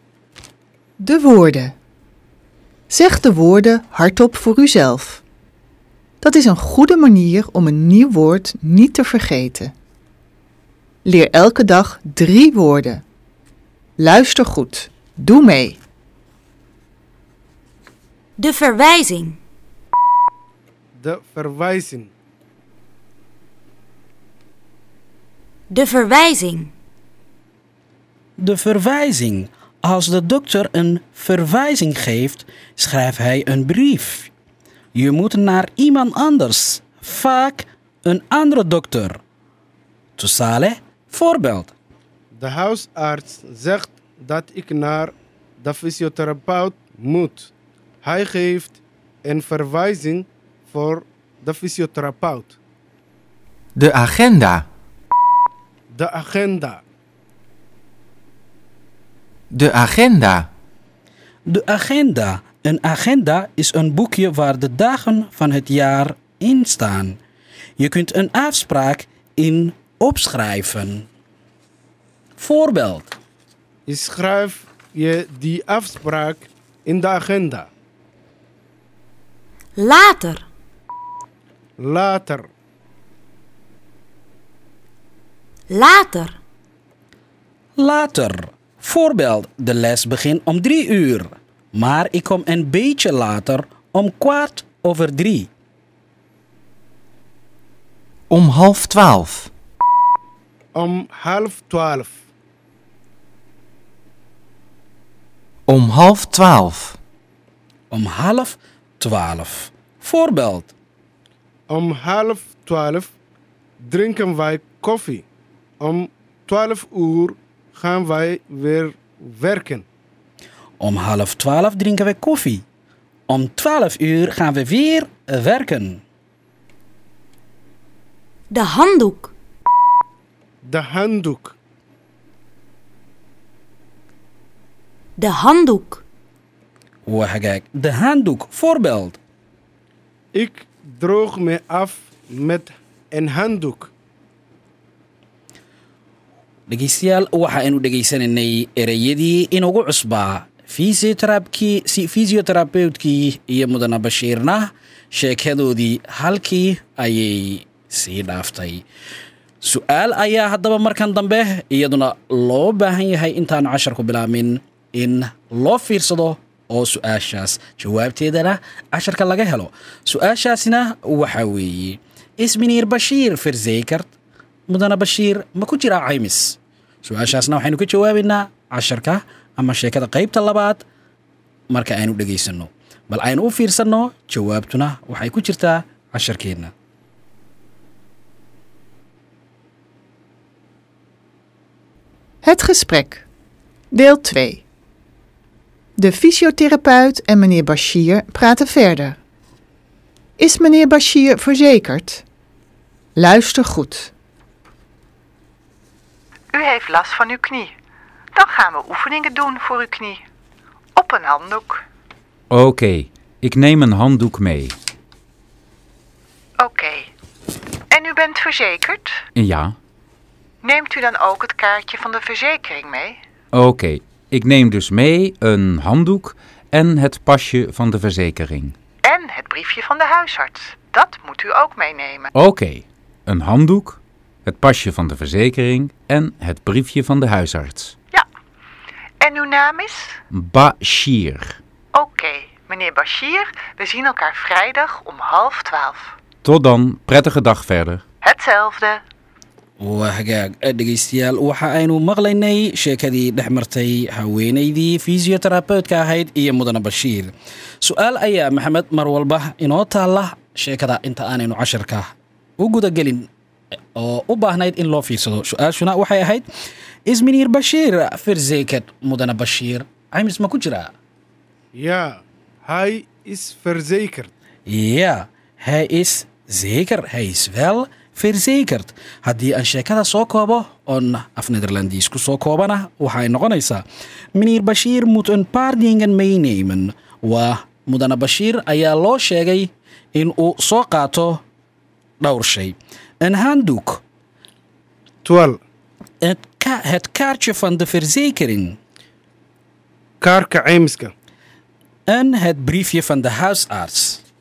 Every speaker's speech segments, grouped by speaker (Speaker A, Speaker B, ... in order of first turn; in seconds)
Speaker A: 1.0-1.8, 2.9-5.2, 6.2-9.7, 11.1-13.0, 14.0-15.8, 192.4-193.3, 193.9-194.6, 196.0-199.2, 200.4-202.2, 203.2-204.1, 206.5-207.7, 208.3-210.2, 211.0-211.8, 216.6-217.1, 217.9-219.2, 220.6-223.2, 229.0-232.3, 239.2-240.2, 241.9-246.1, 248.2-249.0
Speaker B: 18.4-19.4, 25.7-26.7, 79.8-80.5, 85.7-86.4, 128.5-129.3, 135.2-136.0
Speaker C: 21.0-22.1, 42.4-47.5, 48.0-52.5, 55.9-56.8, 73.9-77.7, 81.8-82.5, 100.8-102.2, 111.7-113.1, 113.8-115.2, 115.8-119.8, 130.7-131.6, 140.3-143.9, 271.8-274.3, 295.2-295.6, 300.2-301.1
Speaker D: 28.4-34.3, 35.0-39.2, 40.2-41.7, 61.5-67.2, 67.8-71.1, 72.4-73.1, 87.8-95.5, 107.9-110.7, 120.8-122.6, 123.3-126.0, 137.1-139.2, 146.7-158.8, 159.6-174.1, 174.7-180.8, 181.7-186.7, 249.8-263.3, 264.0-266.4, 267.1-270.9, 274.7-283.8, 284.4-291.4, 292.2-294.0, 296.2-298.8, 302.1-304.2
Speaker E: 53.8-54.7, 59.5-60.5, 98.3-99.5, 105.7-107.0
Speaker F: 212.5-214.8, 219.4-219.8, 223.5-228.7, 232.3-237.9, 240.3-241.6, 246.4-248.0